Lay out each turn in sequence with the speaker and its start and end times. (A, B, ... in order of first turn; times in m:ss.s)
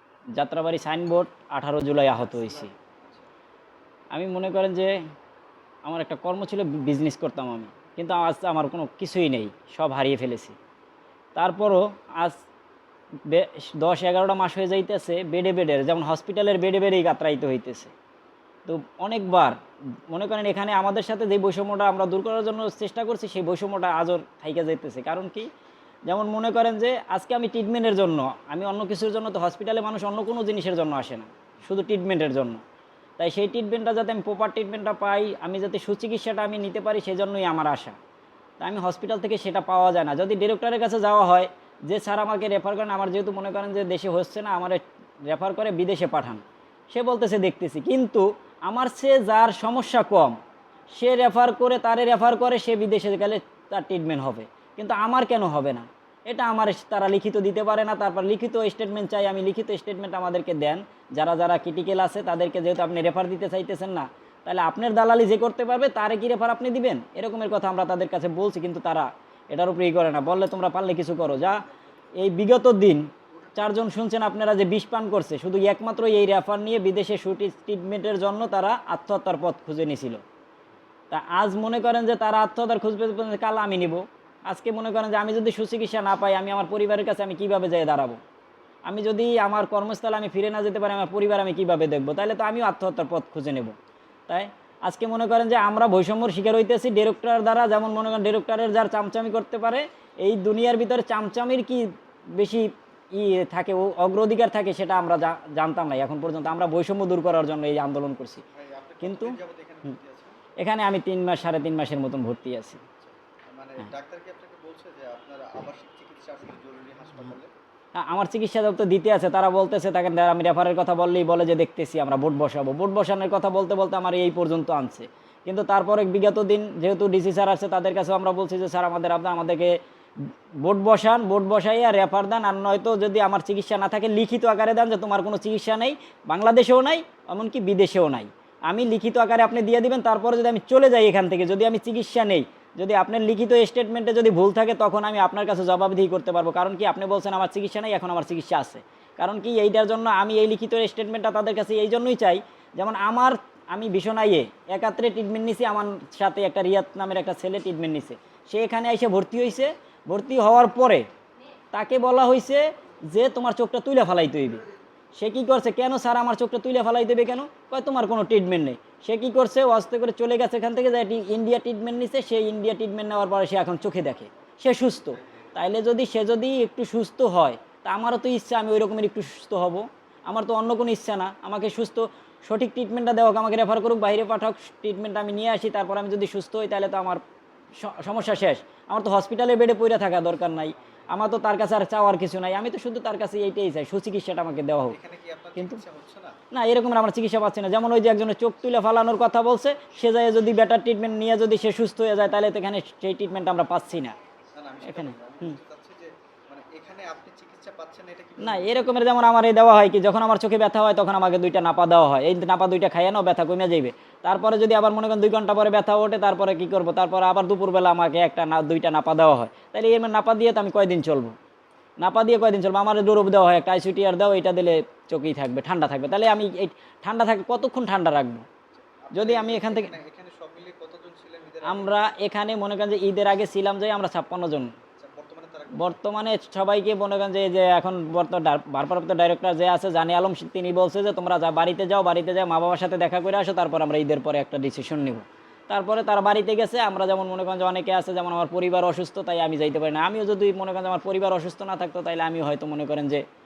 0:00.4-0:02.7 A
0:02.4-0:03.3 B
0:04.1-0:05.0 A
0:05.8-0:10.6 A
0:11.4-0:12.4 A
0:13.3-0:17.9 A
0:18.6-0:19.6 A
0:20.1-0:25.5 A
0:26.1-0:32.6 A
0:33.2-0:38.0 A
0:38.6-0:50.4 A
0:50.9-1:11.6 A
1:12.2-1:20.2 A
1:21.1-1:28.2 A
1:28.8-1:33.7 A
1:34.3-1:48.4 A
1:48.5-1:50.4 B
1:49.0-1:49.4 A
1:50.6-1:52.8 A
1:53.0-1:57.5 B
1:58.0-2:41.1 A
2:41.7-3:07.2 A
3:07.8-3:15.0 A
3:14.9-3:16.4 B
3:16.5-3:24.2 A
3:24.5-3:29.0 B
3:24.8-3:25.6 A
3:28.4-3:41.3 A
3:42.0-3:48.4 A
3:48.7-3:52.1 B
3:49.1-3:49.9 A
3:51.6-3:54.7 A
3:55.0-3:56.0 B
3:55.7-4:13.2 A